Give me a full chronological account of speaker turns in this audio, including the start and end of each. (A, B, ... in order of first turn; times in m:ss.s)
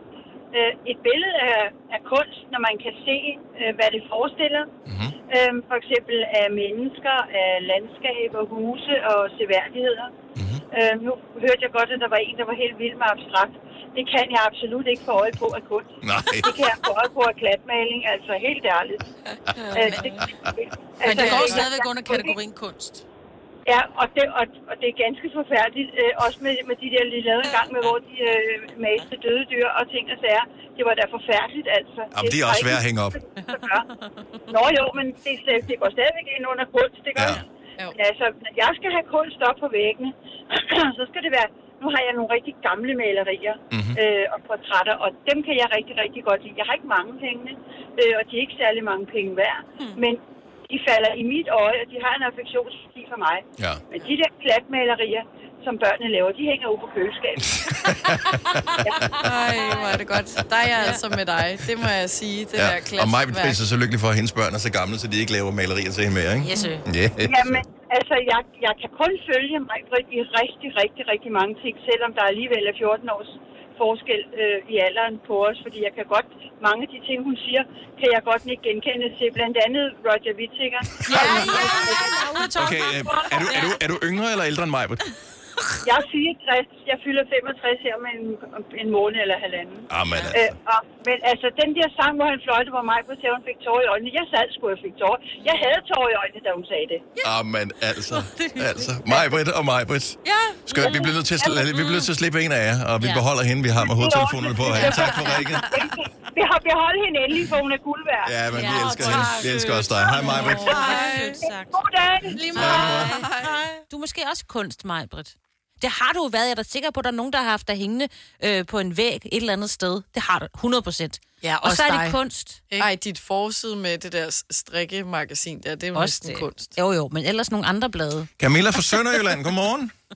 0:00.5-0:04.7 A
0:04.9-0:05.2 B
0:05.3-0:10.1 A
0:10.4-0:10.6 B
0:10.7-0:19.1 A
0:16.0-0:16.6 B
0:19.7-0:22.3 A
0:21.0-0:23.0 C
0:23.7-0:33.9 A
0:32.1-0:33.2 B
0:34.5-0:57.6 A
0:37.2-0:37.4 B
0:43.7-0:44.0 B
0:53.6-0:53.8 B
0:57.6-0:59.3 B
0:58.8-0:59.2 A
0:59.2-1:03.6 D
1:02.6-1:07.6 B
1:06.4-1:06.8 C
1:07.2-1:22.5 A
1:21.1-1:23.5 C
1:21.2-1:22.4 E
1:22.6-1:25.0 B
1:23.4-1:23.7 E
1:25.8-1:37.1 A
1:29.9-1:30.5 B
1:35.4-1:35.7 E
1:37.2-1:45.8 B
1:38.4-1:38.7 C
1:40.8-1:41.1 E
1:41.7-1:42.0 E
1:43.9-1:45.2 A
1:45.7-1:48.4 A
1:48.2-1:51.0 B
1:48.5-1:51.8 E
1:49.0-1:50.5 C
1:50.7-1:51.4 D
1:51.7-1:52.4 A
1:52.4-1:53.6 D
1:52.4-1:53.2 E
1:52.6-1:53.2 B
1:53.9-2:02.6 E
2:01.4-2:02.2 C
2:02.8-2:06.8 D
2:06.0-2:08.3 E
2:08.4-2:09.9 B